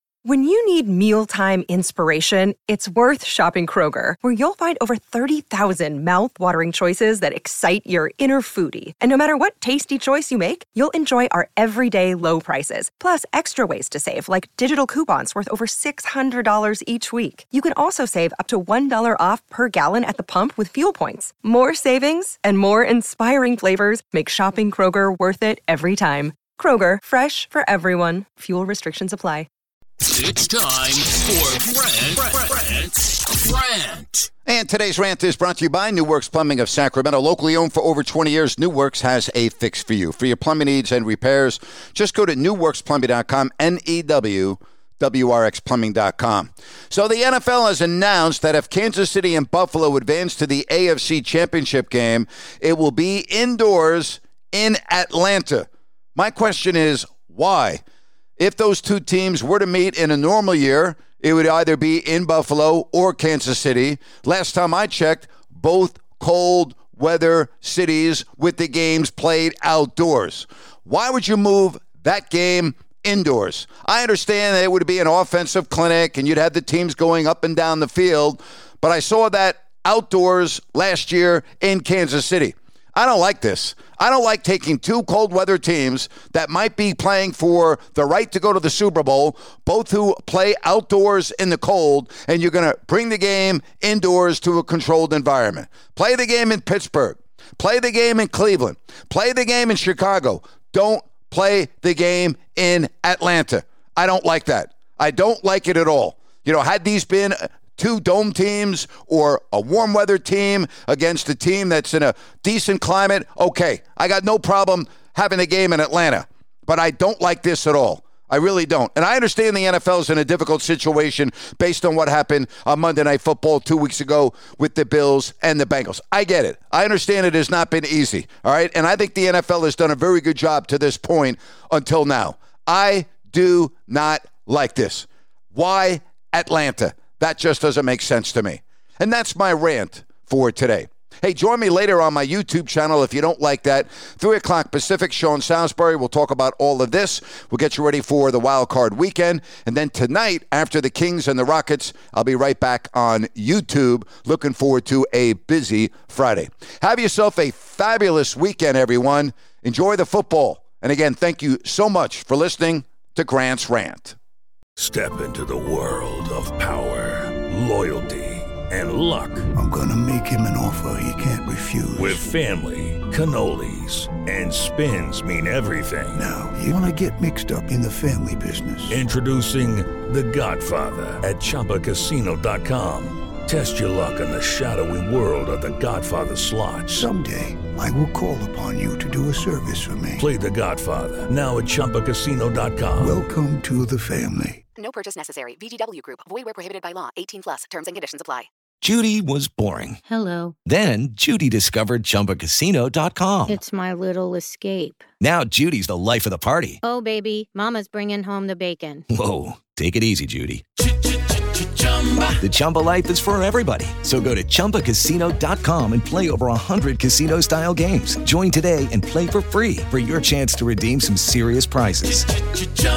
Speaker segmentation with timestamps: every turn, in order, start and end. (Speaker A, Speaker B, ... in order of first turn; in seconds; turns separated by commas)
Speaker A: 0.2-29.5, Speaker B: 34.5-57.8, Speaker B: 58.4-164.2, Speaker C: 164.8-169.5, Speaker D: 169.6-172.2, Speaker C: 171.9-176.3, Speaker D: 176.2-179.0, Speaker C: 178.9-187.1, Speaker D: 186.9-190.3, Speaker C: 190.2-193.2, Speaker D: 193.0-194.6, Speaker E: 194.8-198.5, Speaker F: 198.8-200.0, Speaker F: 200.7-203.6, Speaker G: 203.7-205.0, Speaker F: 205.2-206.8, Speaker G: 206.9-209.0, Speaker F: 209.1-210.6, Speaker F: 212.4-222.3